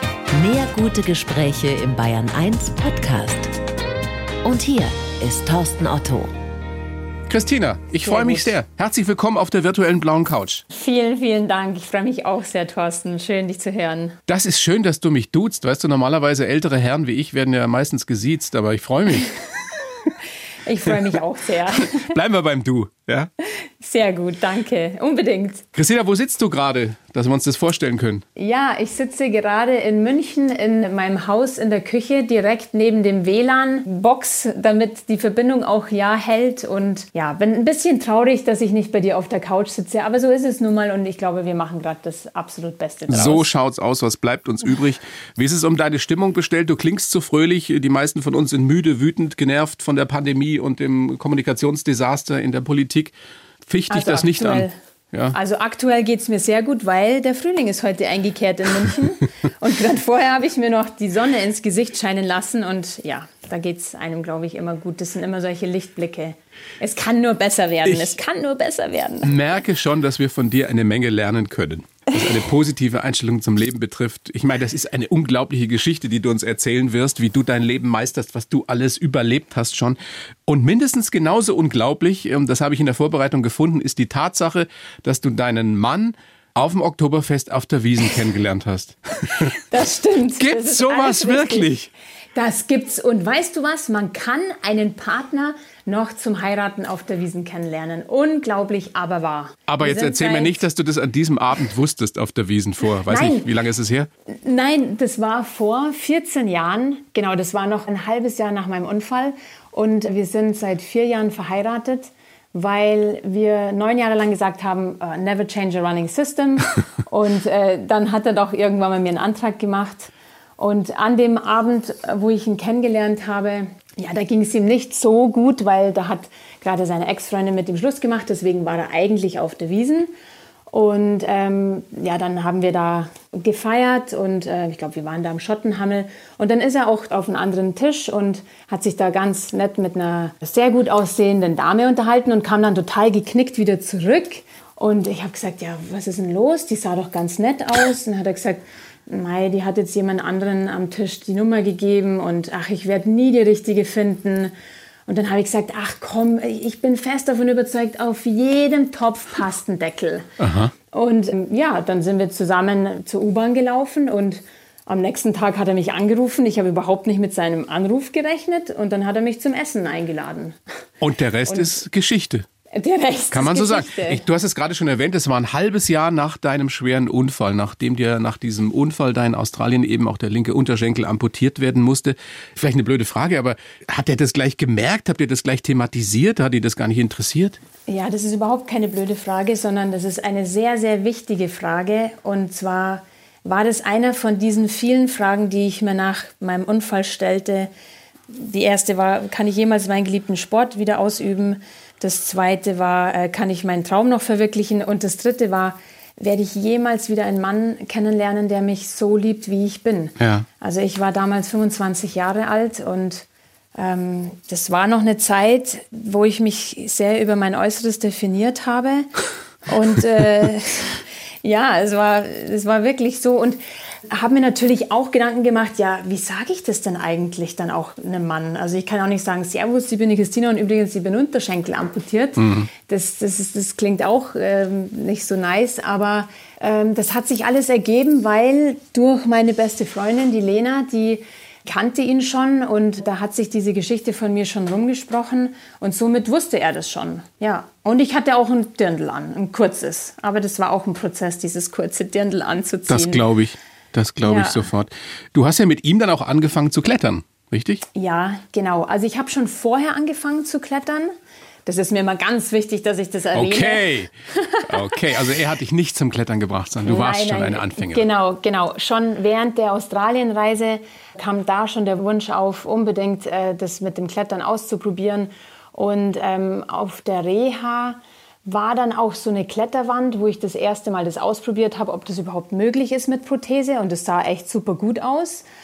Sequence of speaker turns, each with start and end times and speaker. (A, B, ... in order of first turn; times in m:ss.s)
0:00.3-0:03.5 A
0:04.4-0:06.3 A
0:07.3-0:10.6 B
0:08.0-0:08.5 C
0:10.7-0:14.2 C
0:14.3-0:19.4 B
0:20.6-0:22.2 C
0:21.8-0:23.3 B
0:23.4-0:25.6 C
0:25.7-0:28.2 B
0:28.4-0:43.5 C
0:43.1-0:53.1 B
0:53.7-0:55.4 B
0:53.9-0:54.7 C
0:55.3-1:09.3 C
1:07.8-1:08.2 B
1:09.2-1:29.6 B
1:29.4-1:31.7 C
1:30.4-1:31.9 B
1:32.3-1:40.6 C
1:39.7-1:44.1 B
1:43.1-1:43.5 C
1:44.3-2:10.1 C
2:10.7-2:34.5 C
2:35.1-2:40.3 C
2:40.4-2:40.7 B
2:40.9-2:50.6 C
2:51.0-2:52.4 B
2:52.7-2:54.2 C
2:53.3-3:07.6 B
3:07.9-3:17.7 C
3:18.3-3:39.1 C
3:30.2-3:30.4 B
3:39.6-4:13.2 C
3:52.4-3:52.7 B
4:12.9-4:17.8 B
4:14.2-4:14.7 C
4:17.9-4:21.1 C
4:21.6-4:24.7 C
4:23.3-4:24.1 B
4:24.6-4:28.0 B
4:26.8-4:45.4 C